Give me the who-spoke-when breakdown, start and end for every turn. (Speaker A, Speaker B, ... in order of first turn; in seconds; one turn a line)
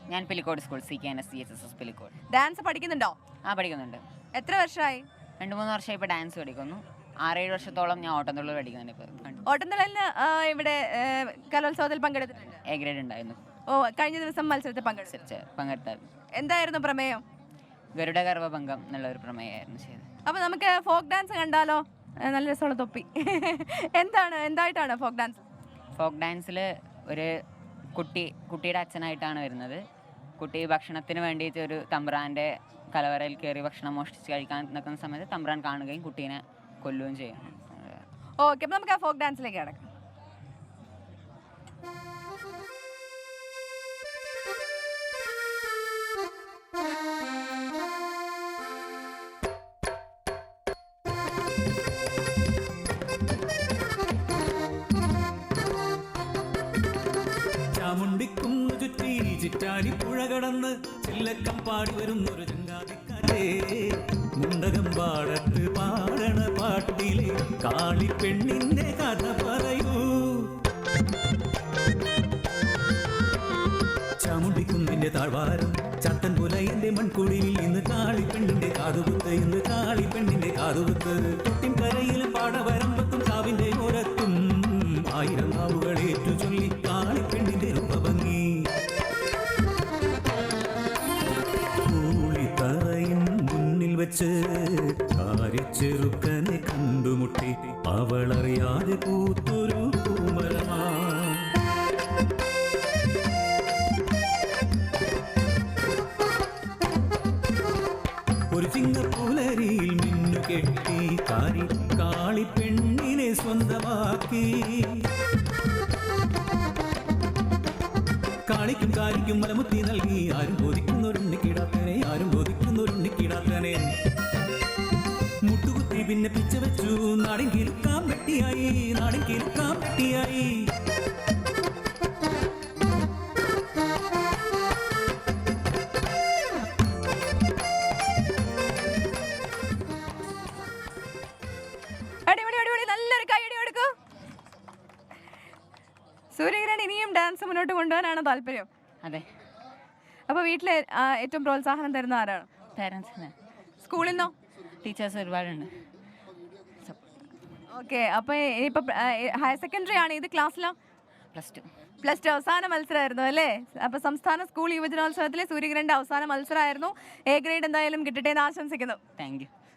Speaker A: 0.1-2.2
Speaker B: 2.3-3.2
Speaker A: 3.5-4.0
Speaker B: 4.3-5.1
Speaker A: 5.4-9.4
Speaker B: 9.5-12.6
Speaker A: 12.7-13.4
Speaker B: 13.7-15.2
Speaker A: 15.1-16.0
Speaker B: 16.4-17.2
Speaker A: 18.0-20.1
Speaker B: 20.3-25.4
Speaker A: 26.0-27.4
Speaker A: 27.9-29.8
Speaker A: 30.4-38.0
Speaker B: 38.4-39.9
Speaker C: 57.7-70.5
Speaker C: 74.2-88.6
Speaker C: 91.8-101.5
Speaker C: 108.5-115.0
Speaker C: 118.5-123.9
Speaker C: 125.5-130.6
Speaker B: 142.3-143.9
Speaker B: 146.3-148.7
Speaker B: 150.3-152.5
Speaker A: 152.8-153.3
Speaker B: 153.8-154.3
Speaker A: 154.8-155.8
Speaker B: 157.7-160.8
Speaker A: 161.3-161.7
Speaker B: 162.0-169.0
Speaker A: 169.2-169.5